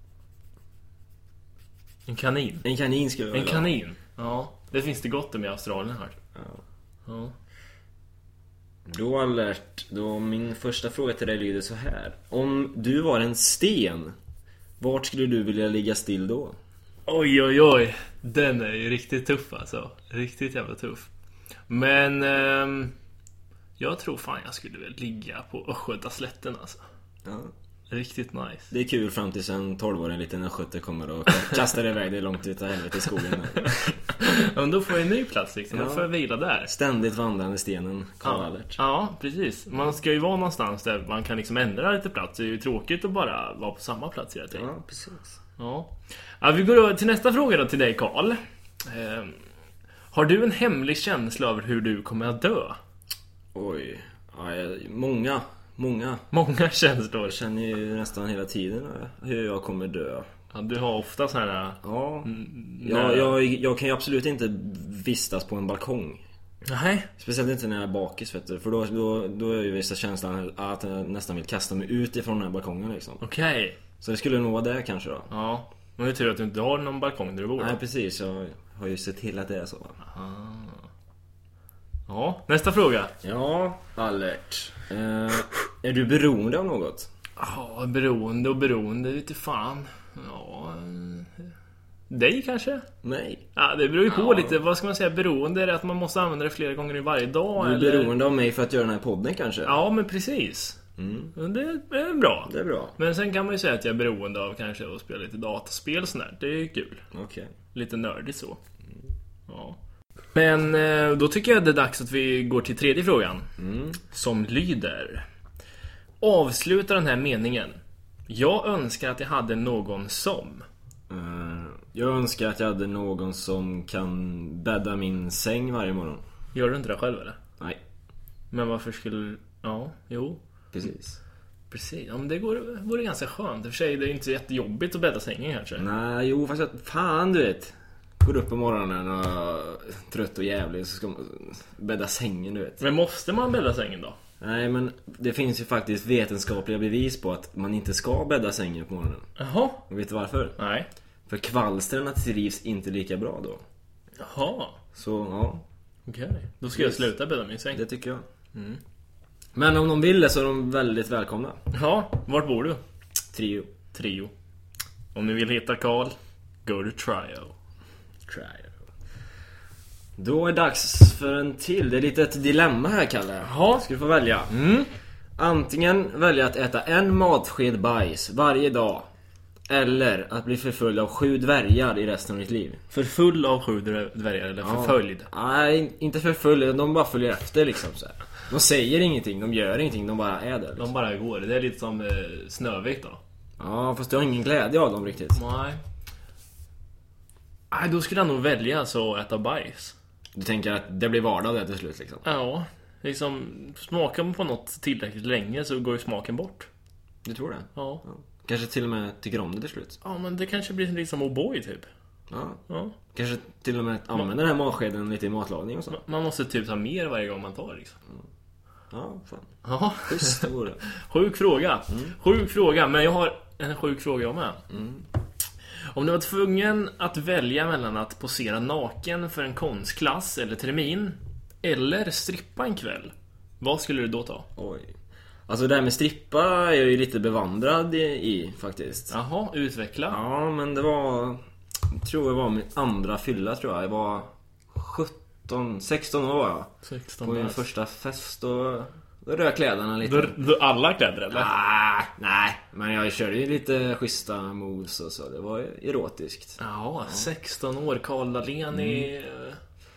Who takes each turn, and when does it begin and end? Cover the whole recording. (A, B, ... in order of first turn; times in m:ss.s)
0:02.1-0:02.6 A
0:02.6-0:03.7 B
0:03.3-0:06.2 A
0:06.3-0:06.6 B
0:07.1-0:07.3 A
0:08.8-0:14.2 B
0:14.8-0:16.6 B
0:17.1-0:21.1 A
0:21.7-0:22.9 A
0:23.8-0:26.8 A
0:27.2-0:27.5 B
0:27.9-0:28.7 A
0:28.7-0:34.0 B
0:34.2-0:36.7 A
0:35.7-0:36.1 B
0:36.7-0:38.8 B
0:38.2-0:44.7 A
0:44.5-0:45.4 B
0:45.6-0:49.4 A
0:50.1-0:52.8 A
0:53.5-0:56.2 B
0:56.3-0:57.4 A
0:57.3-1:00.3 B
1:00.5-1:03.4 A
1:01.8-1:06.2 B
1:06.7-1:07.1 A
1:07.2-1:13.2 B
1:13.2-1:13.8 A
1:14.0-1:15.3 B
1:15.3-1:17.8 A
1:17.6-1:20.0 B
1:20.0-1:20.8 A
1:22.1-1:23.1 A
1:23.2-1:27.1 B
1:27.4-1:31.5 A
1:32.1-1:32.8 A
1:33.0-1:33.5 B
1:33.6-1:38.1 A
1:34.1-1:34.6 B
1:37.6-1:39.8 B
1:39.6-1:40.8 A
1:41.0-1:41.3 B
1:41.4-1:47.0 A
1:42.5-1:43.0 B
1:47.1-1:47.5 B
1:47.7-1:48.6 A
1:49.5-1:49.8 A
1:50.3-1:53.5 A
1:53.6-1:54.0 B
1:54.1-1:55.2 A
1:56.2-2:00.6 A
2:01.1-2:06.2 B
2:06.5-2:07.4 A
2:08.5-2:10.4 A
2:10.7-2:11.2 B
2:11.7-2:15.8 A
2:15.8-2:22.8 B
2:22.8-2:24.2 A
2:24.4-2:29.3 B
2:29.4-2:29.8 A
2:29.9-2:30.6 B
2:30.6-2:30.9 A
2:31.3-2:33.6 B
2:34.2-2:34.8 A
2:34.9-2:35.6 B
2:36.1-2:37.8 A
2:36.8-2:37.1 B
2:37.7-2:38.2 B
2:38.5-2:38.8 A
2:39.6-2:41.6 B
2:41.7-2:42.8 A
2:43.3-2:43.7 B
2:43.9-2:44.3 A
2:45.1-2:47.5 A
2:48.2-2:48.8 B
2:50.2-2:54.6 B
2:53.4-2:53.8 A
2:54.5-2:54.9 A
2:55.4-2:59.1 B
2:59.7-3:02.8 B
3:02.9-3:05.3 A
3:04.6-3:10.9 B
3:10.8-3:13.2 A
3:13.6-3:15.4 B
3:15.3-3:15.8 A
3:17.7-3:19.9 A
3:20.4-3:22.2 B
3:22.2-3:26.7 A
3:27.2-3:30.0 B
3:27.8-3:28.0 A
3:30.0-3:31.9 A
3:32.3-3:32.6 B
3:32.7-3:32.9 A
3:33.1-3:36.0 B
3:35.9-3:38.0 A
3:38.9-3:39.6 B
3:39.6-3:44.6 A
3:40.1-3:40.8 B
3:41.9-3:42.1 B
3:44.7-3:45.1 B
3:45.9-3:54.5 A
3:54.6-3:54.9 B
3:55.5-3:59.1 B
3:59.1-4:00.2 A
4:00.1-4:06.7 B
4:06.8-4:07.6 A
4:07.2-4:10.4 B
4:10.0-4:11.5 A
4:11.3-4:17.3 B
4:16.6-4:19.6 A
4:18.7-4:19.1 B